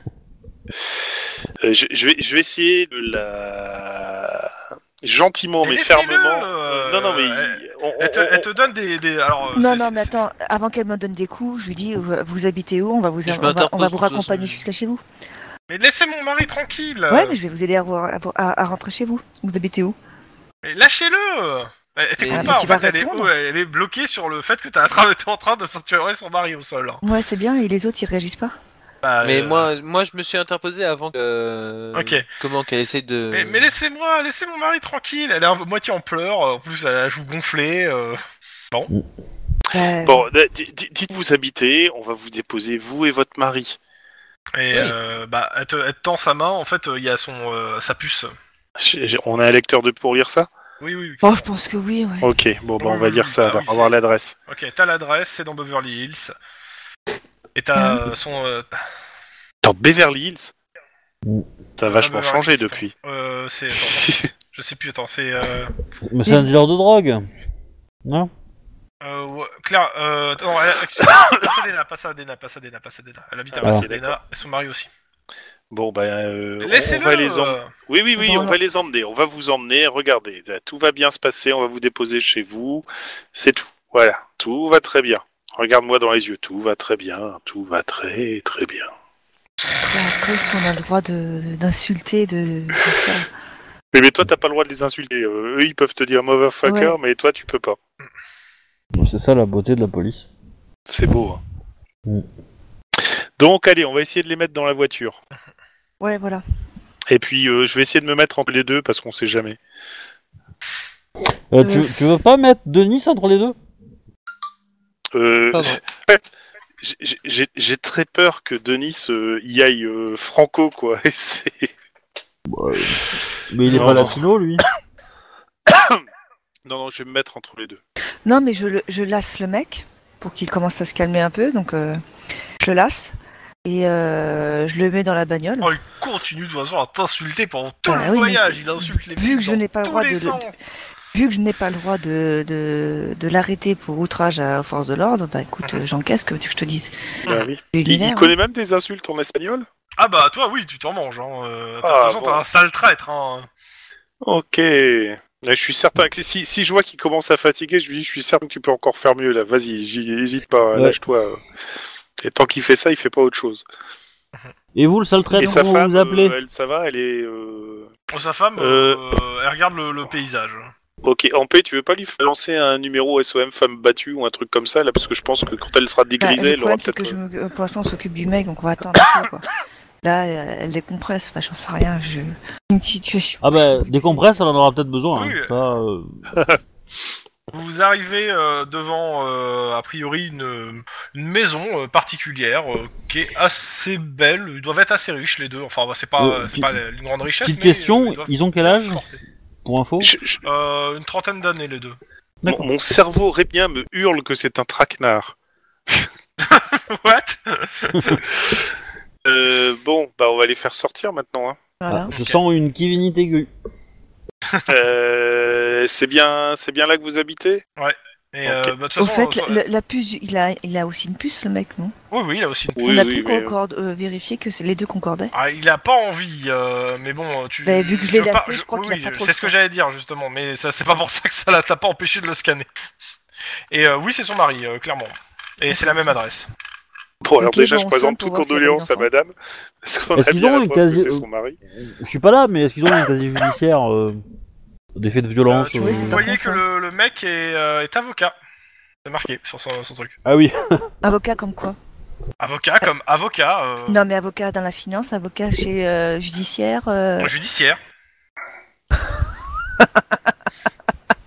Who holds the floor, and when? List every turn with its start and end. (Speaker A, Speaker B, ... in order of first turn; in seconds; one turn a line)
Speaker A: 1.6-8.5
Speaker B: 5.6-10.2
Speaker C: 9.5-15.0
Speaker D: 13.2-14.6
Speaker B: 15.7-17.4
Speaker C: 17.1-19.9
Speaker B: 20.6-27.0
Speaker D: 22.2-22.7
Speaker C: 22.3-23.3
Speaker C: 27.0-28.5
Speaker B: 29.0-29.7
Speaker D: 29.2-33.7
Speaker B: 31.9-32.2
Speaker B: 33.3-38.2
Speaker C: 39.7-40.2
Speaker A: 40.0-43.8
Speaker B: 44.5-48.3
Speaker A: 48.8-50.5
Speaker B: 50.8-51.5
Speaker C: 51.2-52.3
Speaker A: 52.2-54.3
Speaker B: 52.8-53.9
Speaker B: 54.5-56.3
Speaker B: 57.5-58.7
Speaker A: 59.6-60.5
Speaker A: 61.8-62.9
Speaker B: 61.9-65.7
Speaker A: 64.0-64.3
Speaker E: 66.0-67.3
Speaker E: 68.0-68.3
Speaker B: 69.0-74.9
Speaker A: 71.1-71.4
Speaker A: 73.5-74.2
Speaker A: 75.7-88.9
Speaker B: 76.6-77.7
Speaker C: 78.2-78.5
Speaker C: 89.8-93.3
Speaker A: 93.9-97.8
Speaker C: 96.6-97.0
Speaker E: 98.9-100.3
Speaker A: 100.9-101.4
Speaker A: 103.0-105.2
Speaker C: 106.0-106.4
Speaker A: 107.1-109.6
Speaker E: 111.5-113.5
Speaker C: 111.6-112.0
Speaker A: 115.1-116.2
Speaker D: 115.5-115.8
Speaker A: 116.8-121.7
Speaker E: 122.5-124.6
Speaker A: 123.7-124.2
Speaker A: 125.7-126.0
Speaker A: 126.6-127.8
Speaker C: 128.2-132.0
Speaker C: 132.6-133.1
Speaker C: 133.6-135.7
Speaker B: 135.6-140.5
Speaker C: 137.9-140.5
Speaker C: 141.1-146.9
Speaker A: 147.2-149.7
Speaker C: 147.7-148.3
Speaker B: 150.0-153.5
Speaker A: 151.8-152.4
Speaker A: 154.2-161.4
Speaker A: 162.2-163.6
Speaker E: 164.7-166.3
Speaker A: 165.4-167.9
Speaker B: 168.1-170.7
Speaker A: 168.6-169.0
Speaker A: 171.0-177.2
Speaker C: 176.2-179.5
Speaker C: 180.0-184.2
Speaker E: 183.4-186.2
Speaker B: 185.1-185.5
Speaker B: 187.5-199.2
Speaker E: 196.2-196.8
Speaker E: 197.4-199.0
Speaker E: 199.6-200.1
Speaker A: 200.0-200.4
Speaker B: 200.4-202.0
Speaker A: 202.4-205.3
Speaker B: 206.4-208.2
Speaker A: 209.2-211.6
Speaker C: 211.8-212.1
Speaker E: 211.9-213.5
Speaker B: 212.1-212.4
Speaker A: 214.7-217.6
Speaker B: 217.8-219.6
Speaker A: 218.4-218.7
Speaker C: 219.0-221.9
Speaker B: 222.1-222.9
Speaker A: 222.8-223.5
Speaker C: 222.8-225.3
Speaker B: 225.3-232.7
Speaker C: 227.6-229.5
Speaker B: 233.7-236.5
Speaker C: 235.7-236.2
Speaker A: 237.2-241.6
Speaker C: 237.4-239.1
Speaker E: 240.1-244.2
Speaker E: 244.9-246.2
Speaker B: 245.5-248.3
Speaker C: 245.8-246.6
Speaker B: 249.0-250.1
Speaker E: 250.2-250.9
Speaker C: 251.0-251.8
Speaker B: 252.4-254.0
Speaker C: 253.9-257.3
Speaker B: 257.2-257.8